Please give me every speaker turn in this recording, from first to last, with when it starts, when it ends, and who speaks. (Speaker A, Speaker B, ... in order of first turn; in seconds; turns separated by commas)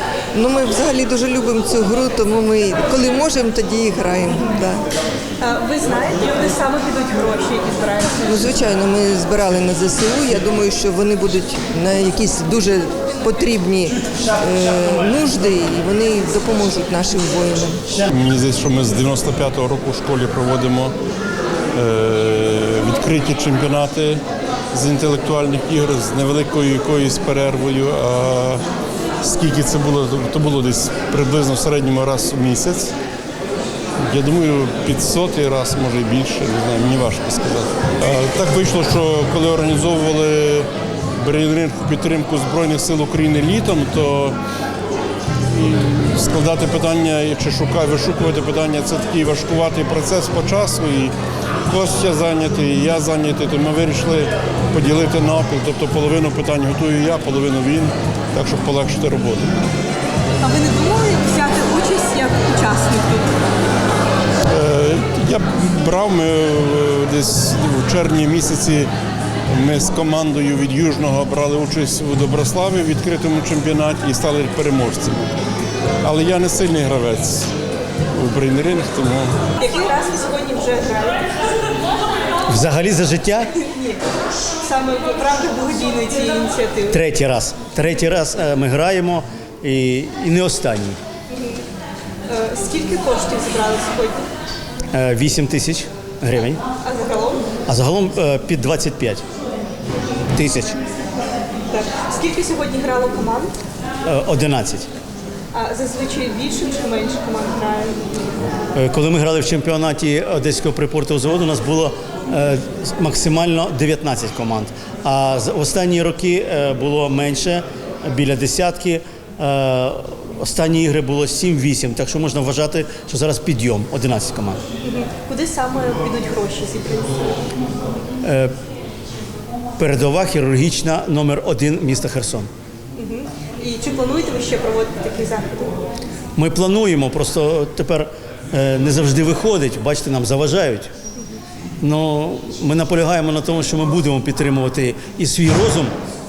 Speaker A: 0.3-4.8, Speaker B: 5.4-8.5, Speaker A: 8.3-17.8, Speaker C: 14.0-14.9, Speaker C: 17.9-18.1, Speaker D: 18.1-20.9, Speaker D: 21.7-28.6, Speaker D: 29.2-32.9, Speaker D: 34.1-40.7, Speaker D: 41.2-44.4, Speaker D: 45.5-51.1, Speaker D: 51.7-59.6, Speaker B: 60.4-63.4, Speaker D: 64.5-68.9, Speaker D: 69.5-75.4, Speaker D: 76.0-77.5, Speaker D: 78.1-79.4, Speaker B: 79.6-81.4, Speaker C: 82.5-83.5, Speaker B: 83.5-84.0, Speaker B: 84.6-87.0, Speaker C: 86.9-91.0, Speaker B: 91.3-91.6, Speaker B: 92.3-94.2, Speaker C: 94.9-96.6, Speaker B: 96.8-97.5, Speaker C: 97.7-99.2, Speaker C: 100.3-100.8, Speaker B: 101.7-103.6, Speaker C: 104.0-104.9, Speaker B: 105.5-108.0, Speaker C: 108.7-124.6, Speaker B: 124.8-127.4, Speaker C: 128.2-128.5, Speaker C: 129.8-132.5, Speaker B: 133.0-135.8, Speaker C: 136.3-140.9, Speaker C: 141.8-146.0